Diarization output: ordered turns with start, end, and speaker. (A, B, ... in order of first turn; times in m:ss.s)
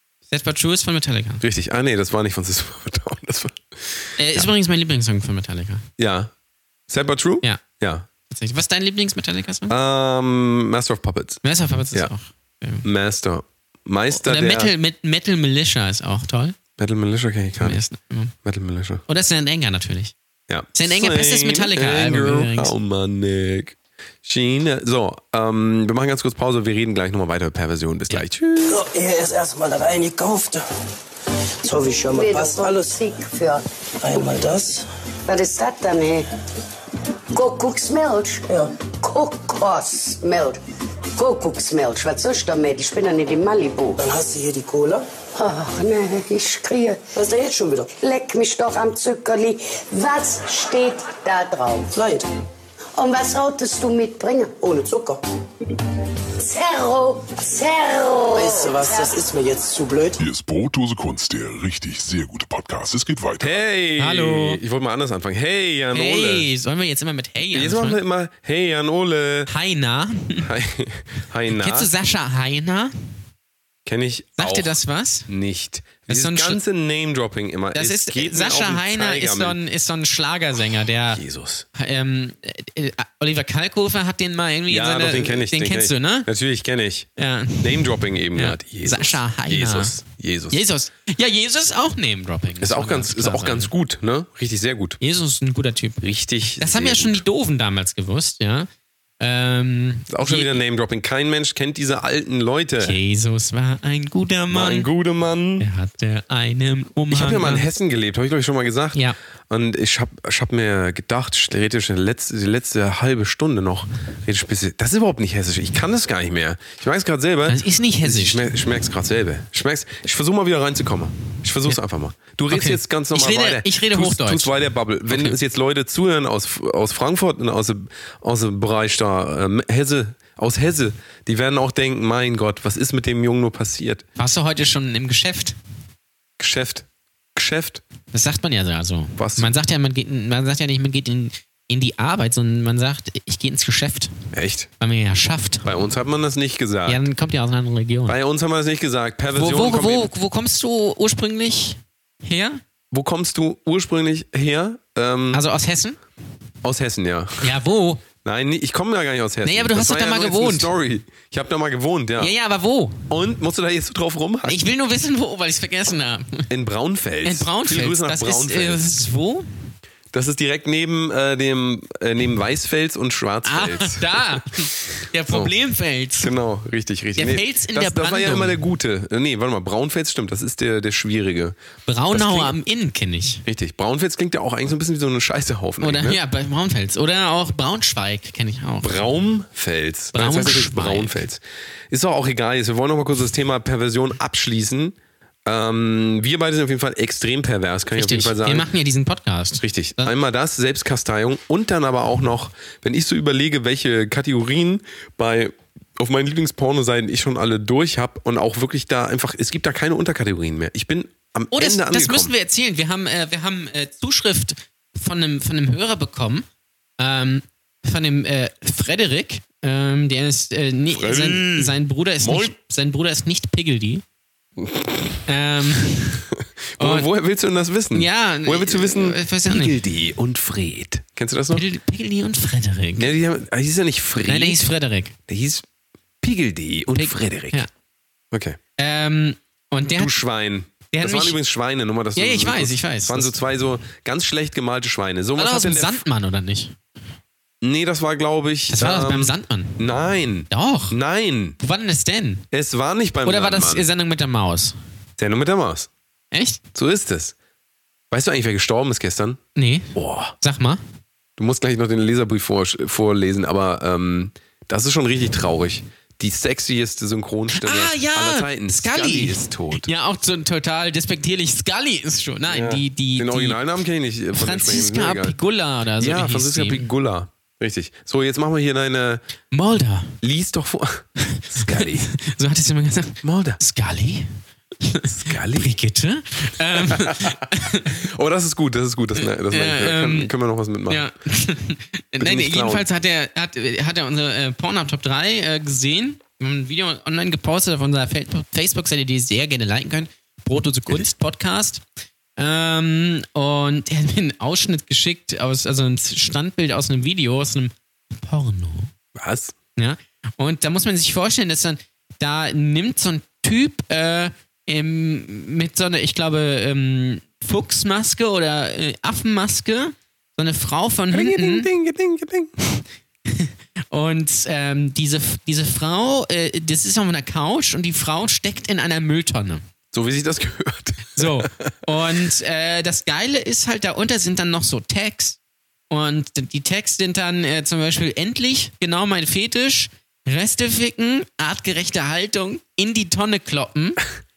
0:00.3-0:01.4 A
0:01.4-0:04.5 B
0:04.2-0:05.8 A
0:06.0-0:06.3 B
0:06.9-0:08.1 B
0:08.3-0:09.7 A
0:09.7-0:12.1 B
0:11.4-0:12.9 A
0:12.8-0:14.7 B
0:14.1-0:16.6 A
0:16.8-0:17.8 B
0:17.6-0:18.3 A
0:18.4-0:19.0 B
0:19.1-0:20.1 A
0:20.5-0:28.8 B
0:20.7-0:22.7 A
0:28.6-0:30.6 C
0:31.6-0:33.0 C
0:32.1-0:33.6 D
0:34.0-0:34.9 C
0:35.3-0:36.3 D
0:37.3-0:40.6 D
0:41.2-0:44.0 D
0:44.0-0:45.0 C
0:45.3-0:47.2 D
0:47.1-0:47.9 C
0:47.9-0:51.9 D
0:51.9-0:52.3 C
0:53.0-0:54.9 D
0:54.7-0:55.2 C
0:56.4-0:59.2 D
0:58.3-1:00.2 C
1:00.2-1:03.6 E
1:03.4-1:06.5 B
1:04.0-1:04.6 A
1:05.9-1:08.0 A
1:07.5-1:09.5 B
1:09.5-1:10.5 A
1:10.4-1:11.9 B
1:11.5-1:12.9 A
1:13.8-1:19.6 B
1:14.4-1:15.3 A
1:16.1-1:16.6 A
1:17.7-1:21.2 A
1:21.1-1:21.6 B
1:21.7-1:26.3 A
1:24.7-1:27.1 B
1:27.2-1:30.0 A
1:27.6-1:30.6 B
1:30.5-1:33.7 A
1:32.6-1:35.0 B
1:35.0-1:38.7 A
1:36.0-1:37.2 B
1:39.2-1:40.6 A
1:40.1-1:43.0 B
1:42.8-1:44.9 A
1:44.5-1:45.7 B
1:45.6-1:47.7 A
1:47.1-2:14.0 B
1:57.5-1:58.5 A
2:02.5-2:05.4 A
2:14.2-2:15.6 A
2:16.4-2:17.8 B
2:18.1-2:24.1 A
2:19.2-2:19.6 B
2:24.3-2:24.7 B
2:24.8-2:25.8 A
2:25.6-2:27.0 B
2:26.9-2:28.2 A
2:28.1-2:30.1 B
2:29.3-2:32.6 A
2:32.9-2:35.4 B
2:35.3-2:36.0 A
2:36.6-2:37.5 B
2:37.4-2:38.0 A
2:38.2-2:42.3 B
2:39.4-2:40.7 A
2:42.2-2:43.0 A
2:43.1-2:44.6 B
2:44.4-2:46.5 A
2:46.5-2:48.9 B
2:47.2-2:49.5 A
2:50.1-2:54.4 B
2:53.4-2:56.3 A
2:56.2-3:01.6 B
2:57.2-2:58.6 A
3:01.9-3:03.4 A
3:02.1-3:02.6 B
3:03.4-3:06.2 B
3:05.8-3:09.0 A
3:08.8-3:18.7 B
3:10.1-3:11.2 A
3:17.9-3:20.1 A
3:19.6-3:32.3 B
3:31.5-3:36.4 A
3:37.0-3:44.0 A
3:40.9-3:42.5 B
3:44.6-3:45.2 B
3:45.3-3:46.2 A
3:46.7-3:51.6 B
3:46.8-3:47.1 A
3:47.9-3:49.8 A
3:51.5-3:53.1 A
3:53.0-3:54.7 B
3:54.2-3:55.2 A
3:55.3-3:55.6 B
3:56.2-3:57.6 B
3:57.0-3:57.7 A
3:58.3-3:58.6 B
3:58.8-4:00.2 A
3:59.9-4:06.0 B
4:00.9-4:01.4 A
4:02.1-4:03.3 A
4:05.4-4:06.8 A
4:07.6-4:11.6 B
4:08.7-4:09.8 A
4:10.5-4:11.0 A
4:11.6-4:12.4 A
4:12.5-4:13.9 B
4:13.2-4:14.8 A
4:15.2-4:15.9 B
4:16.3-4:16.6 A
4:16.7-4:17.3 B
4:18.1-4:19.4 B
4:19.6-4:20.8 A
4:19.9-4:20.3 B
4:21.4-4:29.9 B
4:27.5-4:33.6 A
4:32.5-4:35.3 B
4:34.3-4:36.9 A
4:36.0-4:39.2 B
4:39.5-4:40.2 A
4:40.2-4:42.1 B
4:41.3-4:48.0 A
4:43.2-4:43.6 B
4:45.1-4:45.8 B
4:46.7-4:51.0 B
4:49.2-4:50.3 A
4:50.9-5:01.8 A
4:52.2-4:52.9 B
5:02.4-5:08.9 A
5:09.2-5:09.6 B
5:09.8-5:21.7 A
5:21.1-5:22.5 B
5:22.6-5:29.6 A
5:29.9-5:31.8 B
5:31.2-5:35.4 A
5:35.9-5:44.0 A